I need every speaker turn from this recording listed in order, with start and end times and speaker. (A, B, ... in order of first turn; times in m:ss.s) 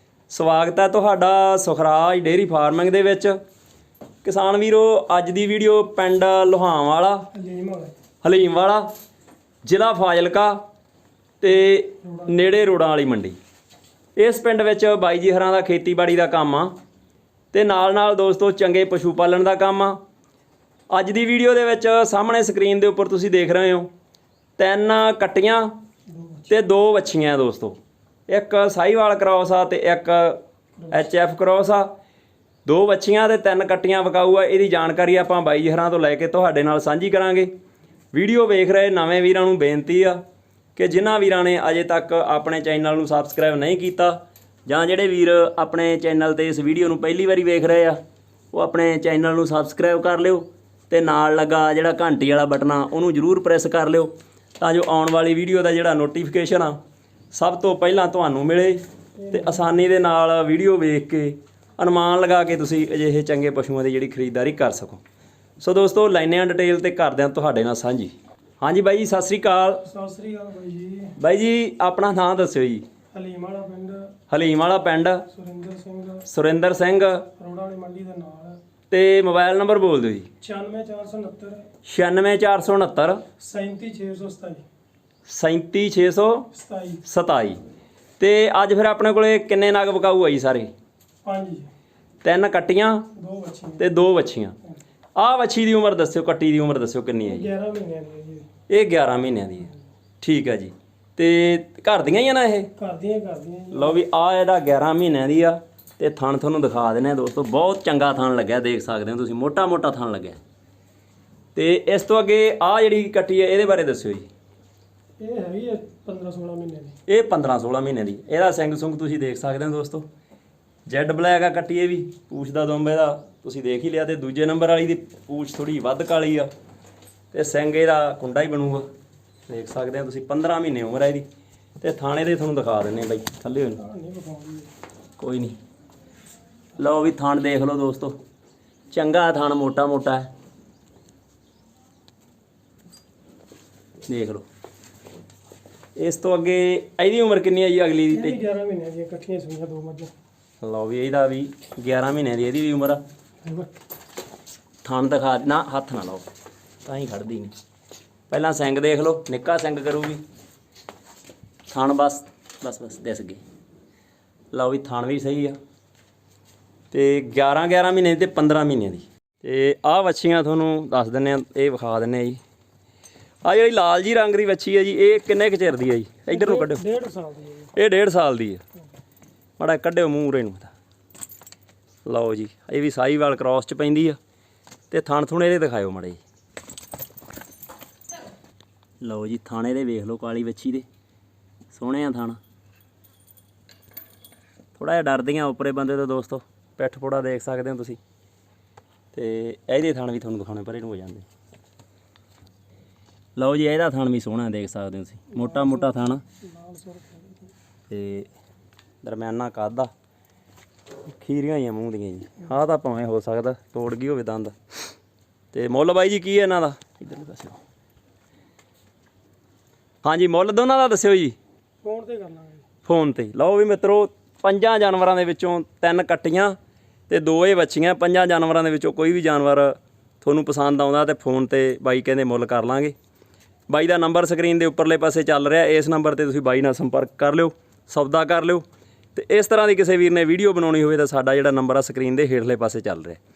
0:00.3-0:03.4 A
0:04.2-0:07.3 A
0:07.3-0:08.0 B
0:08.2-0:08.9 A
0:09.6-0:10.6 A
0:11.4-0:13.4 A
0:12.0-0:12.7 B
0:14.2-0:16.8 A
0:17.5-0:20.0 A
0:20.9-0:23.9 A
0:24.6-0:25.7 A
0:26.1-0:26.5 B
0:26.5-0:27.8 A
0:28.3-0:31.9 A
0:32.6-0:37.5 A
0:38.1-0:40.2 A
0:40.8-0:48.0 A
0:48.5-0:56.8 A
0:57.3-1:05.0 A
0:59.2-0:59.7 B
1:05.6-1:09.9 A
1:09.9-1:11.1 B
1:11.2-1:12.8 A
1:13.1-1:14.2 B
1:14.3-1:15.3 A
1:15.3-1:16.3 B
1:16.2-1:17.3 A
1:17.4-1:18.6 B
1:18.9-1:20.3 A
1:20.4-1:21.7 B
1:21.8-1:23.3 A
1:23.4-1:24.6 B
1:25.3-1:26.5 A
1:26.5-1:27.0 B
1:27.0-1:27.6 A
1:28.2-1:30.7 A
1:31.2-1:31.7 B
1:32.2-1:33.1 A
1:33.2-1:33.9 B
1:33.8-1:34.6 A
1:35.2-1:37.5 A
1:37.3-1:38.5 B
1:38.7-1:42.7 A
1:42.8-1:44.0 B
1:43.7-1:50.4 A
1:51.6-1:54.3 A
1:55.2-1:57.0 B
1:57.1-2:00.1 A
2:00.9-2:06.5 A
2:07.3-2:08.9 A
2:09.5-2:11.2 A
2:11.8-2:13.8 A
2:13.8-2:14.7 B
2:15.2-2:15.6 A
2:16.8-2:18.2 A
2:18.9-2:20.3 A
2:24.1-2:24.4 A
2:26.0-2:28.4 A
2:28.1-2:30.1 B
2:30.6-2:33.0 A
2:33.4-2:33.7 B
2:34.8-2:36.3 A
2:36.8-2:37.5 A
2:38.3-2:40.2 A
2:41.7-2:43.4 A
2:44.5-2:45.6 A
2:46.9-2:52.4 A
2:53.4-2:56.8 A
2:56.3-2:57.7 B
2:57.7-2:58.6 A
2:59.6-3:00.7 A
3:02.0-3:04.2 A
3:04.9-3:06.2 A
3:09.0-3:10.9 A
3:11.7-3:12.4 A
3:14.8-3:18.0 A
3:19.1-3:21.3 A
3:23.4-3:26.2 A
3:25.3-3:27.5 B
3:27.9-3:28.3 A
3:29.0-3:29.9 A
3:31.0-3:34.6 A
3:35.5-3:37.6 A
3:40.0-3:41.4 A
3:41.8-3:42.7 B
3:42.8-3:46.6 A
3:47.1-3:52.9 A
3:53.7-4:03.2 A